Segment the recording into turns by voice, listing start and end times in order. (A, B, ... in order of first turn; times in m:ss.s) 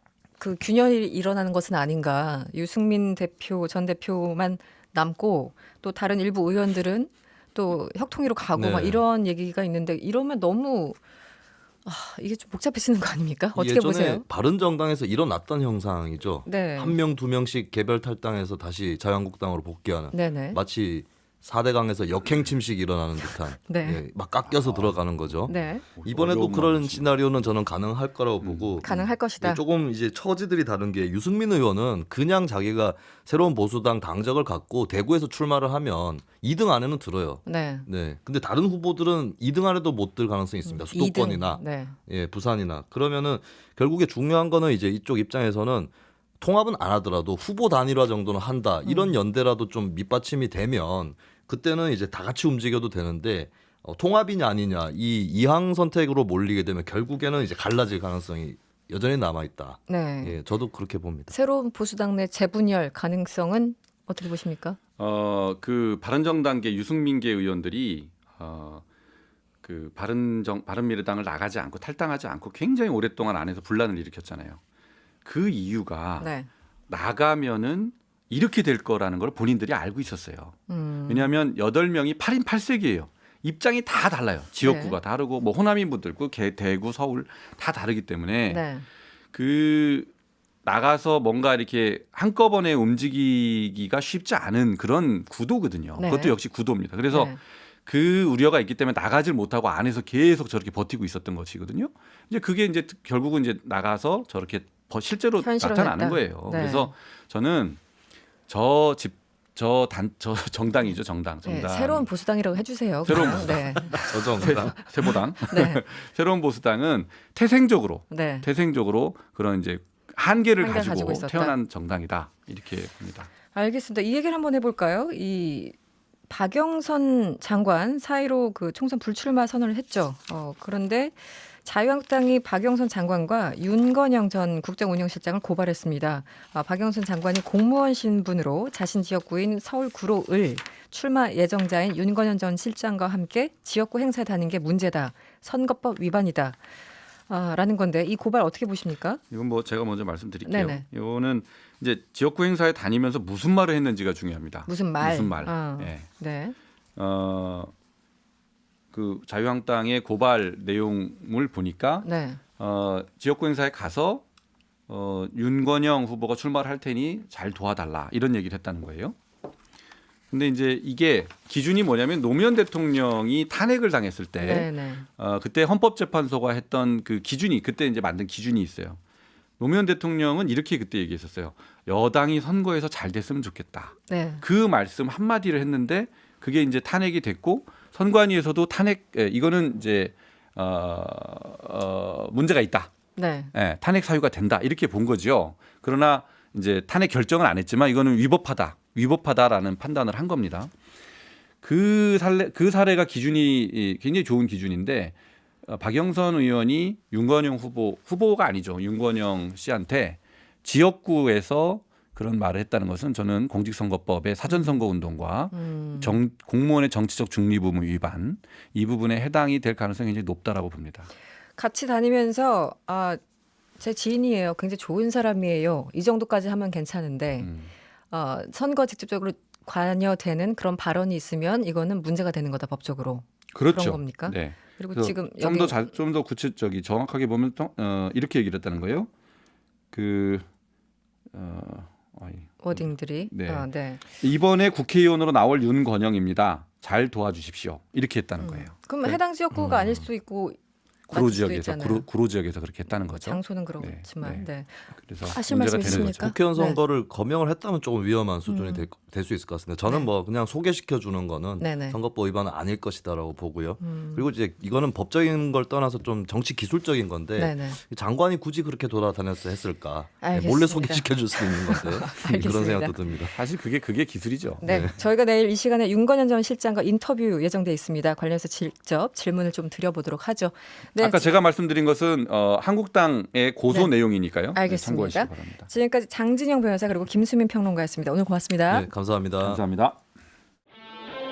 0:00.4-0:11.0 A
0:08.6-0:09.0 B
0:11.8-0:14.2 A
0:13.6-1:01.3 B
0:16.5-0:17.0 A
0:20.1-0:20.6 A
0:23.7-0:24.0 A
0:24.6-0:24.9 C
0:25.5-0:25.8 A
0:26.0-0:27.1 C
0:28.4-0:29.0 C
0:28.8-0:29.6 A
0:37.5-0:37.9 A
0:40.7-0:42.0 A
0:48.8-0:49.1 A
0:59.9-1:00.4 A
1:01.3-1:04.8 A
1:05.0-1:08.8 C
1:09.6-1:14.6 C
1:15.2-1:16.3 C
1:16.2-1:16.5 A
1:16.9-1:28.6 C
1:20.7-1:21.3 A
1:24.6-1:25.0 A
1:28.5-1:28.9 A
1:29.3-1:30.1 C
1:30.6-1:47.8 C
1:36.0-1:36.4 A
1:37.1-1:37.4 A
1:45.4-1:46.9 A
1:48.5-1:52.1 C
1:51.4-1:55.8 A
1:53.1-2:03.3 C
1:54.0-1:54.8 B
1:58.1-1:58.5 A
2:00.6-2:01.5 A
2:03.5-2:05.8 A
2:06.3-2:26.6 A
2:27.3-2:29.2 A
2:29.3-2:36.1 C
2:30.5-2:30.8 A
2:34.7-2:36.6 A
2:37.0-2:37.7 C
2:38.9-2:44.2 C
2:42.0-2:42.4 A
2:44.9-2:49.2 C
2:50.3-2:59.0 C
2:54.4-2:55.1 A
2:59.6-3:12.9 C
3:04.1-3:04.4 A
3:13.2-3:13.5 A
3:13.5-3:20.7 C
3:21.6-3:41.1 C
3:34.5-3:34.8 A
3:35.5-3:36.2 A
3:41.6-3:43.2 A
3:43.8-3:47.5 A
3:47.4-3:47.7 C
3:48.1-3:55.8 A
3:53.5-3:59.1 C
3:59.9-4:00.5 C
4:01.3-4:10.0 C
4:02.6-4:04.0 A
4:08.4-4:10.6 A
4:11.1-4:16.3 C
4:11.1-4:12.0 A
4:13.1-4:16.8 A
4:15.8-4:33.4 B
4:18.5-4:18.9 A
4:21.6-4:22.0 A
4:23.8-4:24.3 A
4:27.4-4:27.8 A
4:30.2-4:32.9 A
4:33.4-4:34.9 C
4:34.6-4:41.3 A
4:34.6-4:34.9 B
4:41.0-4:45.7 C
4:44.5-4:48.9 A
4:48.7-4:49.6 B
4:49.4-4:50.0 C